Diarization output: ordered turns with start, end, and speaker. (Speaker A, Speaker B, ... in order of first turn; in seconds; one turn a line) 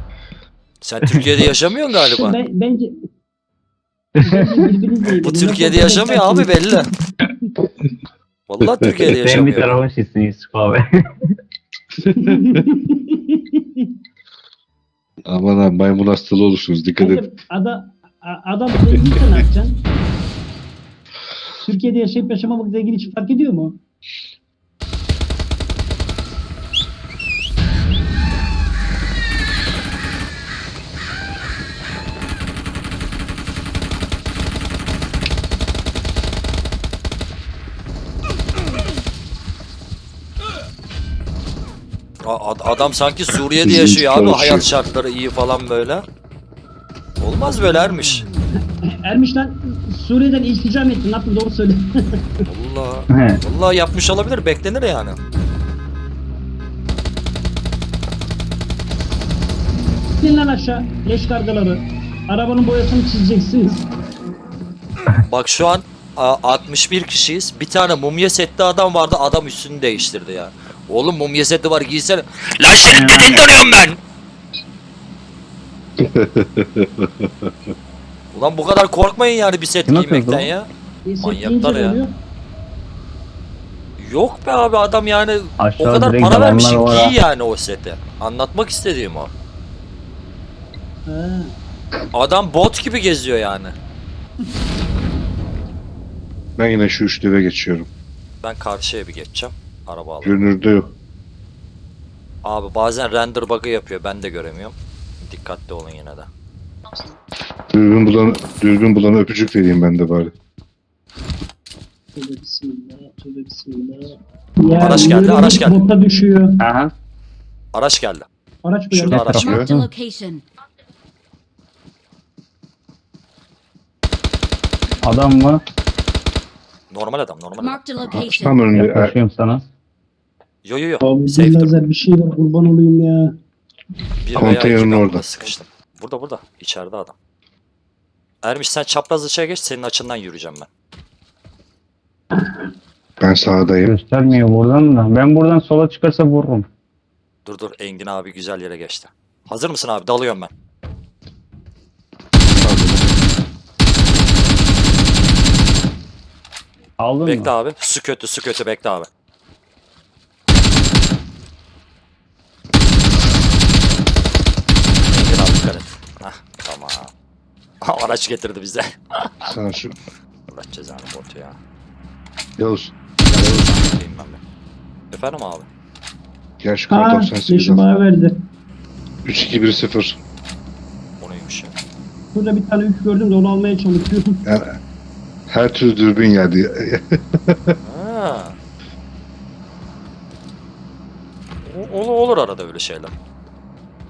Speaker A: 0.8-2.4
Speaker B: 2.2-2.9
Speaker C: 4.2-4.7
Speaker B: 4.2-6.6
Speaker A: 5.2-6.9
Speaker A: 8.5-9.8
Speaker C: 9.2-10.8
Speaker B: 12.0-13.8
Speaker D: 15.2-17.2
Speaker B: 17.0-19.8
Speaker B: 21.6-23.8
Speaker A: 42.2-46.0
Speaker D: 43.6-44.6
Speaker A: 47.2-48.3
Speaker B: 49.0-51.9
Speaker A: 52.5-55.2
Speaker C: 53.1-53.4
Speaker B: 60.2-63.9
Speaker A: 65.2-74.0
Speaker C: 72.9-73.4
Speaker D: 76.0-77.5
Speaker A: 78.3-80.7
Speaker C: 79.9-80.5
Speaker B: 81.1-82.1
Speaker A: 81.2-82.0
Speaker A: 84.0-89.3
Speaker C: 85.6-87.2
Speaker B: 91.1-91.5
Speaker A: 92.1-93.8
Speaker D: 96.6-97.9
Speaker A: 98.4-100.4
Speaker D: 100.2-100.9
Speaker A: 102.4-106.3
Speaker D: 107.7-110.3
Speaker B: 112.2-116.6
Speaker A: 114.8-115.8
Speaker C: 116.6-116.9
Speaker A: 117.7-118.3
Speaker B: 118.6-119.3
Speaker A: 118.9-119.6
Speaker C: 119.1-119.9
Speaker D: 119.3-119.7
Speaker E: 119.4-120.4
Speaker C: 125.0-125.6
Speaker A: 126.9-127.8
Speaker E: 127.6-128.6
Speaker D: 128.0-129.1
Speaker C: 128.7-129.7
Speaker A: 130.6-131.8
Speaker B: 131.0-133.3
Speaker A: 134.2-137.2
Speaker D: 134.3-135.5
Speaker A: 138.4-140.7
Speaker D: 143.2-143.9
Speaker C: 143.9-146.7
Speaker A: 147.4-150.5
Speaker D: 152.6-153.1
Speaker C: 157.0-157.5
Speaker A: 157.2-159.1
Speaker A: 165.1-167.1
Speaker A: 167.8-169.5
Speaker D: 169.4-170.0
Speaker A: 170.5-171.6
Speaker D: 172.6-173.7
Speaker A: 173.2-174.4
Speaker A: 175.1-175.7
Speaker D: 176.6-177.8
Speaker B: 176.9-178.3
Speaker D: 179.2-180.2
Speaker A: 181.2-181.8
Speaker B: 182.3-184.4
Speaker D: 184.4-184.8
Speaker D: 185.5-187.8
Speaker A: 187.8-188.6
Speaker A: 191.6-193.2